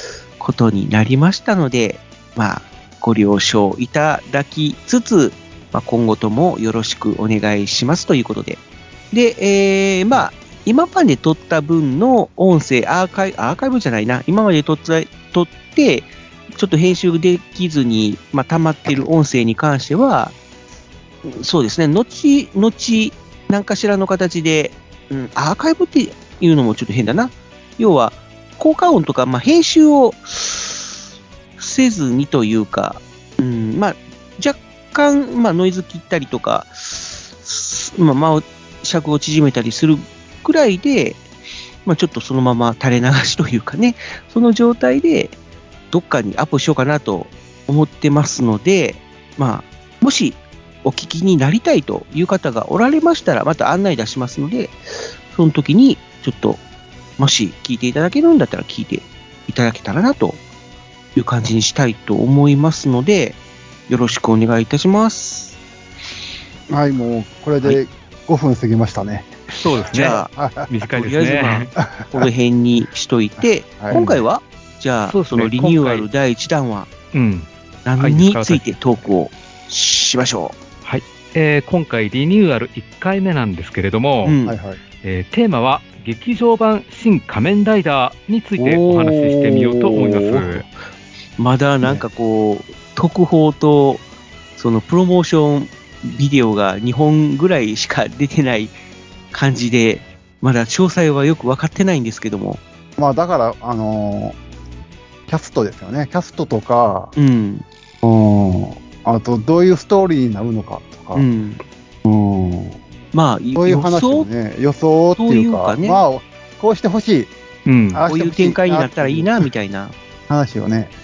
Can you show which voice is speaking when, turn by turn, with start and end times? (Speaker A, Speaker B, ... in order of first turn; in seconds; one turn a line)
Speaker A: 0.4-20.4
Speaker A: 21.2-30.9
Speaker A: 31.6-41.2
Speaker A: 41.8-45.4
Speaker A: 45.9-54.8
Speaker A: 55.3-56.6
Speaker A: 57.2-60.4
Speaker A: 61.1-65.6
Speaker B: 66.7-69.3
Speaker C: 69.6-71.7
Speaker A: 69.9-70.3
Speaker B: 70.0-70.7
Speaker A: 70.9-76.9
Speaker B: 71.9-72.3
Speaker B: 73.4-74.2
Speaker C: 75.1-76.1
Speaker C: 77.1-78.7
Speaker A: 77.8-80.6
Speaker C: 80.8-84.3
Speaker A: 84.2-84.6
Speaker B: 84.4-84.8
Speaker C: 85.0-90.7
Speaker A: 88.6-90.6
Speaker A: 91.4-94.0
Speaker A: 94.6-98.7
Speaker A: 99.3-102.6
Speaker B: 103.0-104.4
Speaker B: 105.3-107.1
Speaker A: 107.1-107.6
Speaker B: 108.0-111.2
Speaker A: 111.1-111.6
Speaker B: 112.0-112.8
Speaker A: 113.1-114.3
Speaker B: 113.5-117.3
Speaker A: 115.2-116.0
Speaker C: 117.7-118.0
Speaker B: 117.9-119.5
Speaker A: 118.1-119.9
Speaker B: 120.3-120.9